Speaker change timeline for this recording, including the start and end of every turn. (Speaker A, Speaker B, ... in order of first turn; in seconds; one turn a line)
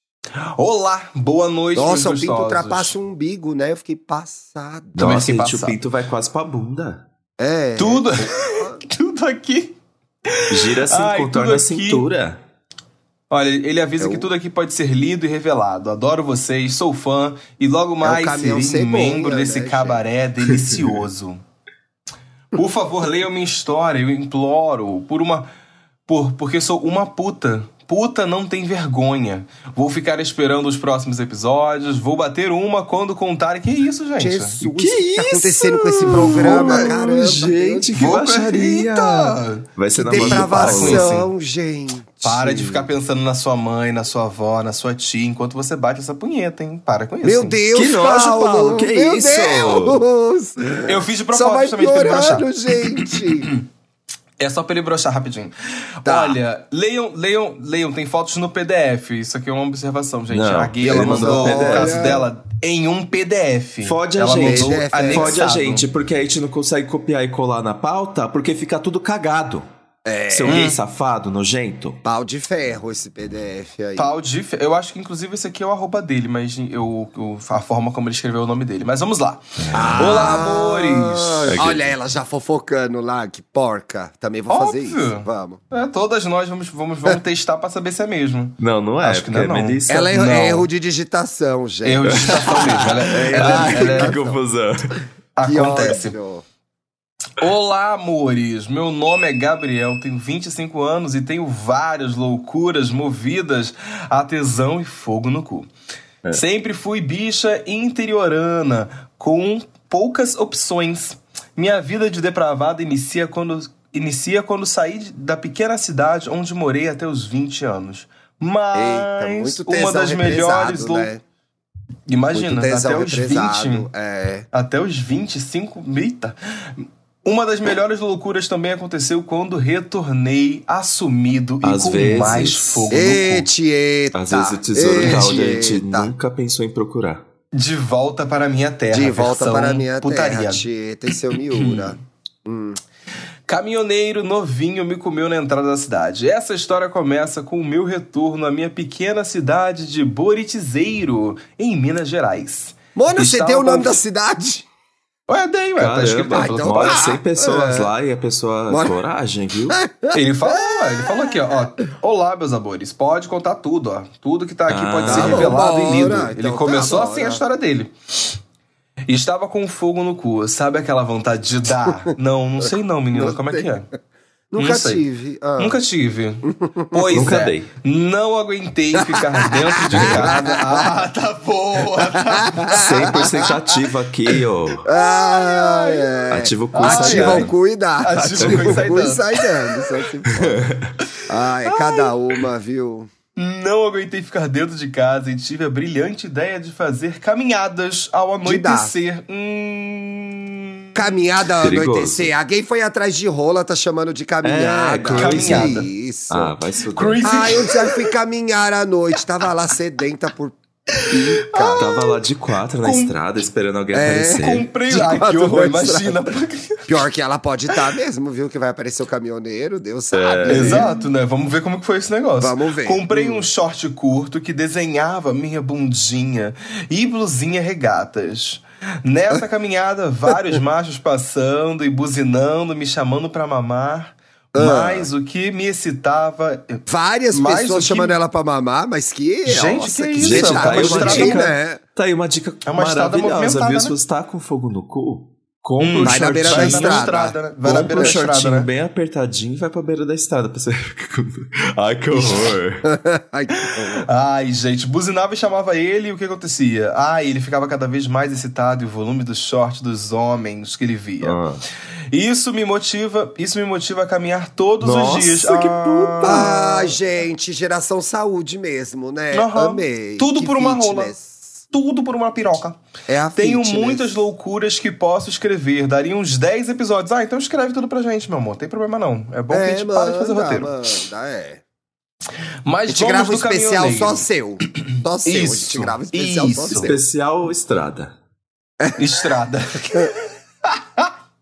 Speaker A: 0.6-3.0
Speaker B: 1.8-5.1
Speaker C: 5.0-7.1
Speaker A: 5.0-5.8
Speaker B: 7.4-8.8
Speaker A: 7.8-9.8
Speaker A: 10.3-12.1
Speaker C: 10.5-12.4
Speaker A: 13.3-21.4
Speaker B: 14.0-14.3
Speaker B: 18.0-20.1
Speaker A: 22.5-25.5
Speaker A: 26.1-34.6
Speaker B: 34.2-37.9
Speaker C: 34.6-41.1
Speaker A: 36.0-36.9
Speaker A: 37.9-41.3
Speaker B: 40.0-42.9
Speaker A: 42.2-47.6
Speaker B: 47.2-53.5
Speaker C: 47.7-50.0
Speaker A: 50.9-53.6
Speaker A: 54.4-65.9
Speaker B: 56.0-56.4
Speaker C: 60.3-62.3
Speaker B: 60.8-62.3
Speaker C: 63.8-69.7
Speaker B: 64.4-65.4
Speaker B: 70.0-70.7
Speaker C: 70.3-72.0
Speaker A: 70.5-70.8
Speaker B: 72.0-74.1
Speaker A: 74.0-79.4
Speaker C: 79.6-80.4
Speaker B: 79.7-85.6
Speaker A: 80.0-81.6
Speaker C: 81.5-81.9
Speaker A: 84.5-90.7
Speaker C: 88.6-90.1
Speaker B: 89.9-94.4
Speaker A: 91.8-94.2
Speaker C: 92.0-95.0
Speaker A: 95.4-96.2
Speaker B: 95.4-96.4
Speaker A: 97.4-105.7
Speaker A: 106.3-121.1
Speaker B: 118.7-121.2
Speaker A: 122.1-123.9
Speaker B: 122.3-124.5
Speaker A: 124.5-133.5
Speaker C: 131.6-132.9
Speaker B: 132.9-136.1
Speaker C: 134.1-137.2
Speaker A: 137.5-142.0
Speaker B: 138.9-142.8
Speaker A: 143.5-154.0
Speaker B: 153.0-154.7
Speaker A: 155.3-157.1
Speaker C: 155.8-159.8
Speaker B: 156.3-157.9
Speaker B: 158.7-159.0
Speaker B: 159.7-161.6
Speaker A: 160.1-168.4
Speaker C: 164.7-165.6
Speaker B: 165.1-167.4
Speaker A: 169.1-173.9
Speaker B: 172.6-173.7
Speaker B: 174.5-175.8
Speaker A: 174.6-175.0
Speaker A: 175.6-183.8
Speaker B: 176.4-177.1
Speaker C: 177.1-177.7
Speaker B: 179.0-180.9
Speaker C: 179.9-180.4
Speaker B: 182.0-183.5
Speaker C: 182.7-184.9
Speaker B: 184.8-190.7
Speaker A: 184.9-189.4
Speaker C: 186.3-187.5
Speaker C: 188.3-188.8
Speaker C: 190.3-190.9
Speaker B: 191.3-193.1
Speaker A: 191.7-192.1
Speaker A: 193.4-201.1
Speaker B: 198.4-198.9
Speaker B: 200.9-206.6
Speaker C: 201.6-202.3
Speaker C: 204.4-207.3
Speaker A: 205.1-205.9
Speaker A: 206.9-208.1
Speaker B: 207.2-210.6
Speaker A: 210.9-212.2
Speaker B: 211.1-211.8
Speaker C: 211.8-214.7
Speaker A: 212.8-213.1
Speaker B: 213.9-216.3
Speaker A: 214.3-216.9
Speaker B: 216.9-220.9
Speaker C: 220.1-220.9
Speaker A: 220.5-236.8
Speaker B: 222.4-223.5
Speaker B: 234.5-235.1
Speaker B: 236.9-241.8
Speaker A: 237.3-238.2
Speaker A: 239.5-241.5
Speaker C: 240.2-247.1
Speaker A: 242.7-243.9
Speaker A: 245.8-248.7
Speaker B: 246.0-247.4
Speaker C: 247.6-252.9
Speaker B: 247.9-248.2
Speaker B: 252.9-254.1
Speaker A: 253.6-261.4
Speaker C: 261.2-261.6
Speaker A: 262.1-266.9
Speaker C: 264.8-266.6
Speaker B: 266.2-271.6
Speaker A: 269.3-271.1
Speaker A: 271.7-272.8
Speaker B: 273.1-274.1
Speaker A: 273.4-280.7
Speaker B: 279.5-281.6
Speaker A: 282.7-284.3
Speaker B: 282.9-287.0
Speaker A: 285.2-286.9
Speaker C: 286.7-288.1
Speaker A: 289.0-291.1